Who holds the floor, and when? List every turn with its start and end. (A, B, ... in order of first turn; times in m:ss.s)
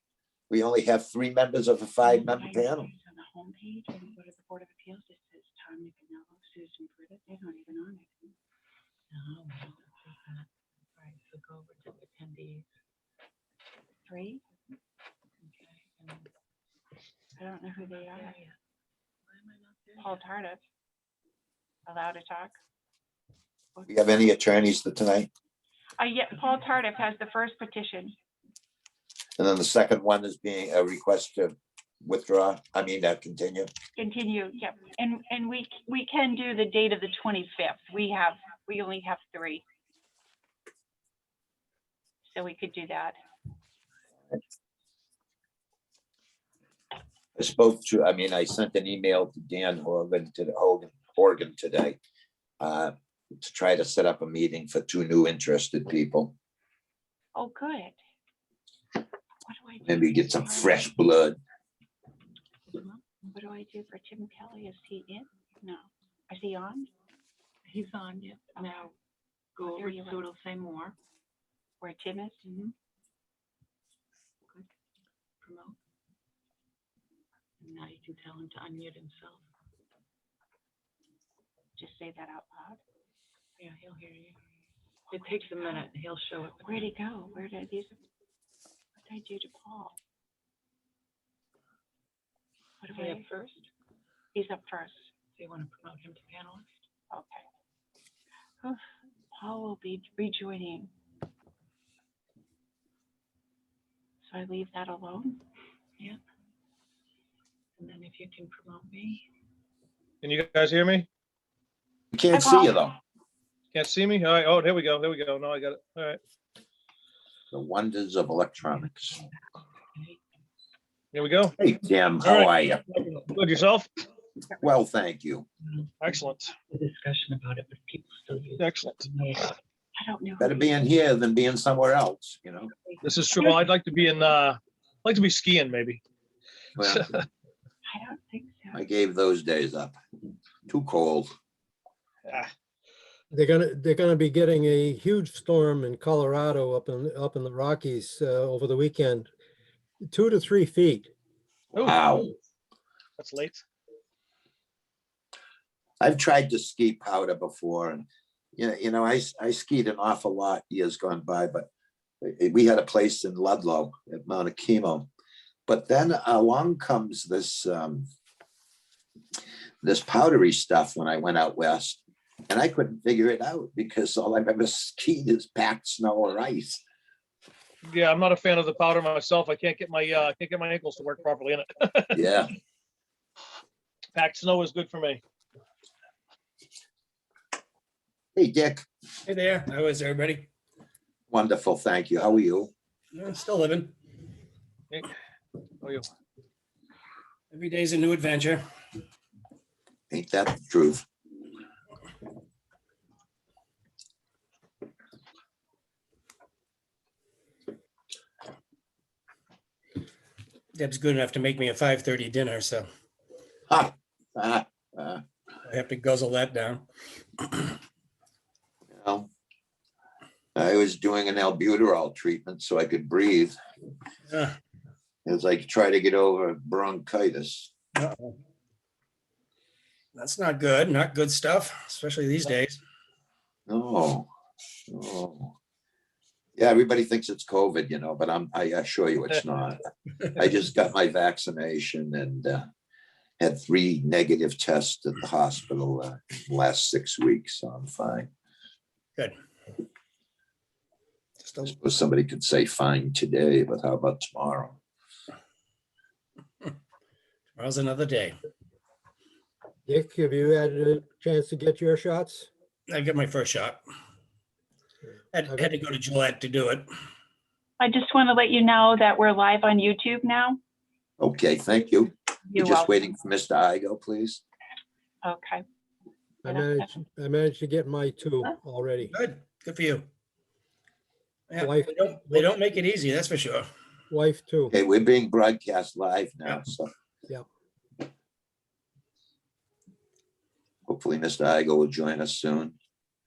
0:00.5-0:02.9 A
0:02.0-0:08.3 B
0:09.1-0:12.7 C
0:14.1-0:14.4 B
0:15.4-0:16.3 C
0:17.4-0:18.4 B
0:17.8-0:18.6 C
0:19.2-0:20.2 C
0:20.0-0:20.6 B
0:21.8-0:22.5 B
0:23.8-0:25.3 A
0:26.0-0:28.1 B
0:29.4-0:33.7 A
0:34.0-0:39.6 B
0:42.2-0:43.2 B
0:47.4-0:52.0 A
0:52.6-0:56.3 A
0:57.3-0:58.0 B
0:59.4-1:00.9 B
0:59.8-1:01.4 A
1:02.7-1:03.0 C
1:03.2-1:06.9 B
1:07.6-1:08.9 C
1:08.5-1:08.9 B
1:09.5-1:11.0 C
1:09.6-1:10.2 B
1:11.8-1:12.4 B
1:12.4-1:12.7 C
1:15.4-1:15.8 C
1:17.6-1:19.4 C
1:21.8-1:22.8 B
1:23.6-1:24.4 C
1:25.1-1:26.9 C
1:25.3-1:25.8 B
1:26.6-1:28.0 B
1:29.0-1:30.0 B
1:32.8-1:33.2 B
1:32.9-1:33.7 C
1:34.3-1:35.1 B
1:35.3-1:36.8 C
1:37.1-1:37.4 B
1:39.3-1:40.9 B
1:44.2-1:45.4 B
1:47.8-1:49.2 C
1:50.2-1:51.1 D
1:52.1-1:53.0 A
1:52.3-1:52.8 B
1:53.7-1:56.2 D
1:57.5-1:59.2 A
1:58.7-1:59.4 C
1:59.9-2:00.2 C
2:01.1-2:01.5 D
2:01.6-2:02.8 A
2:02.2-2:04.0 D
2:04.6-2:05.4 A
2:05.7-2:09.6 C
2:06.0-2:06.5 D
2:08.6-2:09.1 D
2:10.0-2:10.8 B
2:10.4-2:12.7 A
2:12.8-2:13.5 B
2:13.0-2:16.0 D
2:16.8-2:17.2 A
2:17.8-2:18.7 B
2:18.7-2:19.9 A
2:20.7-2:21.3 A
2:22.3-2:22.5 D
2:23.3-2:29.3 E
2:30.1-2:31.1 E
2:31.7-2:32.0 D
2:31.8-2:32.3 A
2:33.2-2:33.6 D
2:36.0-2:38.0 A
2:38.6-2:41.7 A
2:42.2-2:45.1 A
2:45.7-2:48.1 A
2:49.8-2:56.8 A
2:57.9-3:02.2 D
3:02.1-3:02.5 A
3:04.1-3:05.2 D
3:08.4-3:08.8 A
3:09.2-3:10.5 F
3:11.3-3:12.7 A
3:13.1-3:13.9 F
3:15.8-3:16.1 D
3:17.5-3:18.6 F
3:20.1-3:21.0 A
3:30.7-3:32.9 F
3:33.7-3:35.2 A
3:35.6-3:36.8 F
3:37.4-3:37.7 F
3:38.9-3:39.3 A
3:40.5-3:43.6 A
3:44.3-3:44.6 F
3:45.2-3:47.7 A
3:48.0-3:48.4 F
3:50.1-3:52.8 F
3:53.7-3:54.3 A
3:54.9-3:55.5 A
3:56.6-3:59.8 A
4:00.3-4:02.6 A
4:03.4-4:08.3 A
4:11.4-4:11.7 F
4:11.6-4:14.8 A
4:17.6-4:18.4 F
4:19.9-4:22.5 E
4:22.9-4:23.8 F
4:25.3-4:26.9 F
4:27.8-4:30.6 B
4:31.2-4:34.4 A
4:32.5-4:32.9 B
4:35.2-4:35.6 B
4:36.4-4:39.1 E
4:36.4-4:36.9 B
4:39.1-4:40.0 F
4:41.5-4:43.7 F
4:41.6-4:42.5 E
4:44.1-4:44.7 E
4:44.7-4:46.9 A
4:50.9-4:52.7 A